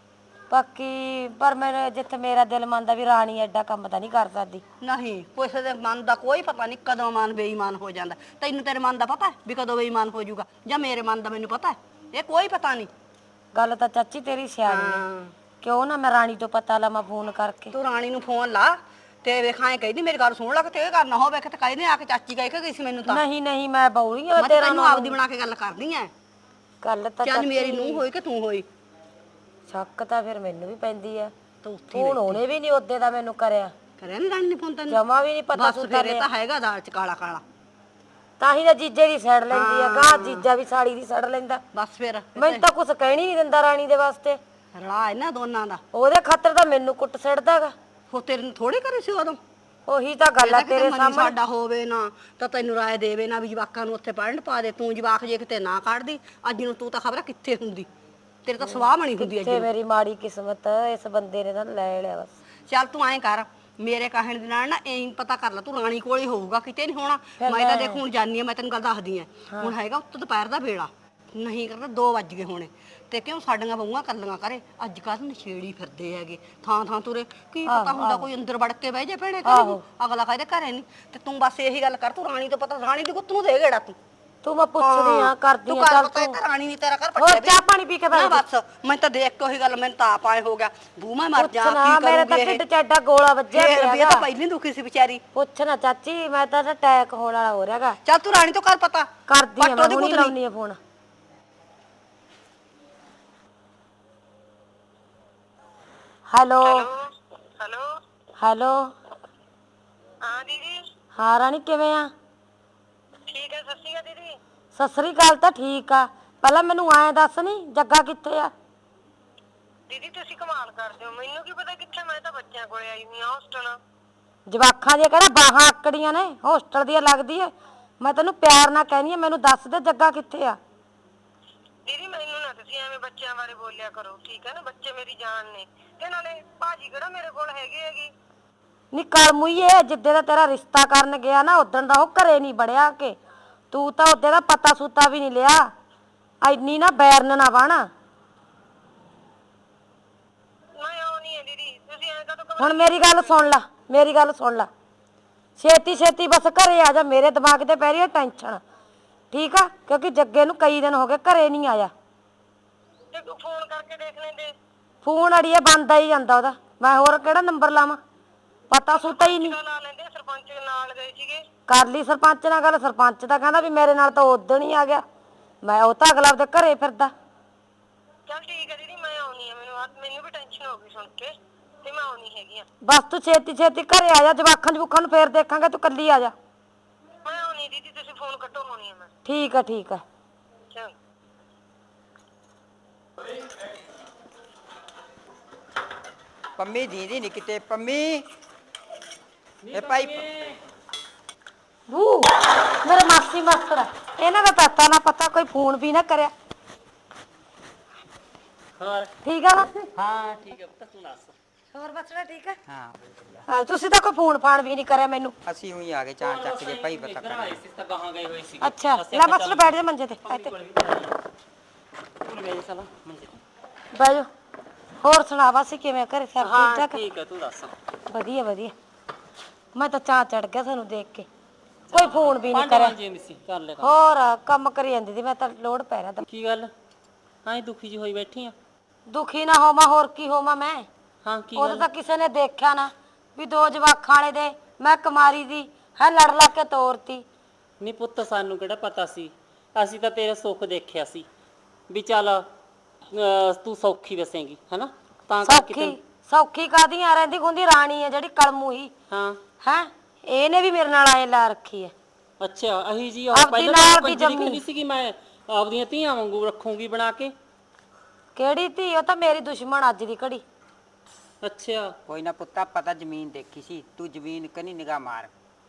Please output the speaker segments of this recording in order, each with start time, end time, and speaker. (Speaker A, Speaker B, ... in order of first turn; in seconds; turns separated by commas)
Speaker A: 0.5-4.6, Speaker B: 4.8-12.9, Speaker A: 13.6-15.0, Speaker B: 14.7-15.3, Speaker A: 15.6-17.8, Speaker B: 17.7-23.2, Speaker A: 23.1-25.2, Speaker B: 24.4-26.1, Speaker A: 26.8-28.0, Speaker B: 27.2-28.7, Speaker A: 29.7-31.3, Speaker B: 31.6-32.4, Speaker A: 31.9-33.7, Speaker B: 34.0-35.0, Speaker A: 34.9-36.3, Speaker B: 35.5-37.4, Speaker A: 38.4-41.6, Speaker B: 39.5-40.5, Speaker B: 41.7-42.6, Speaker A: 42.4-44.4, Speaker B: 44.8-45.8, Speaker A: 45.9-47.7, Speaker B: 48.1-49.4, Speaker A: 49.9-51.4, Speaker B: 50.4-57.9, Speaker B: 58.5-59.7, Speaker A: 58.6-62.3, Speaker B: 62.7-84.0, Speaker A: 67.4-68.0, Speaker A: 77.7-78.3, Speaker A: 79.5-79.8, Speaker A: 84.4-86.3, Speaker B: 84.8-87.6, Speaker A: 87.2-88.4, Speaker B: 88.1-92.6, Speaker A: 91.4-94.3, Speaker B: 93.5-95.2, Speaker A: 95.3-98.0, Speaker B: 98.0-100.3, Speaker A: 99.3-100.8, Speaker A: 106.3-106.9, Speaker C: 106.6-107.0, Speaker C: 107.6-107.9, Speaker A: 108.4-109.0, Speaker C: 110.2-110.8, Speaker A: 111.2-112.1, Speaker C: 113.3-114.3, Speaker A: 114.8-118.5, Speaker C: 119.9-123.8, Speaker A: 124.5-130.6, Speaker C: 131.9-138.1, Speaker A: 138.9-143.2, Speaker A: 143.7-145.7, Speaker A: 146.4-147.9, Speaker C: 150.8-153.5, Speaker A: 152.6-154.7, Speaker A: 155.6-158.6, Speaker A: 159.3-161.9, Speaker C: 163.1-164.5, Speaker A: 165.0-168.0, Speaker A: 168.7-169.6, Speaker C: 168.9-171.4, Speaker A: 171.7-175.0, Speaker A: 175.6-177.1, Speaker C: 178.3-181.3, Speaker C: 181.8-182.7, Speaker A: 182.8-186.3, Speaker C: 187.2-189.1, Speaker A: 189.2-190.0, Speaker D: 196.6-198.2, Speaker E: 199.6-200.6, Speaker D: 199.7-200.2, Speaker A: 201.9-206.3, Speaker E: 208.8-209.1, Speaker A: 209.2-209.9, Speaker E: 210.0-211.3, Speaker A: 211.7-212.6, Speaker D: 212.7-213.4, Speaker A: 213.5-215.3, Speaker D: 215.5-217.6, Speaker E: 216.2-221.2, Speaker A: 218.6-220.5, Speaker E: 222.2-223.4, Speaker A: 223.9-224.3, Speaker A: 225.0-227.0, Speaker E: 226.4-227.7, Speaker A: 228.1-228.7, Speaker A: 229.8-231.3, Speaker E: 231.9-233.9, Speaker A: 231.9-232.9, Speaker A: 233.8-236.2, Speaker E: 236.2-236.7, Speaker E: 237.4-238.6, Speaker A: 239.1-240.9, Speaker E: 241.2-241.9, Speaker A: 241.6-247.2, Speaker E: 247.8-251.3, Speaker E: 251.9-252.5, Speaker E: 253.1-255.9, Speaker A: 255.4-258.9, Speaker E: 259.1-259.4, Speaker A: 259.6-261.9, Speaker E: 262.4-267.3, Speaker A: 263.3-264.6, Speaker A: 268.4-270.4, Speaker E: 271.4-271.9, Speaker D: 272.1-275.3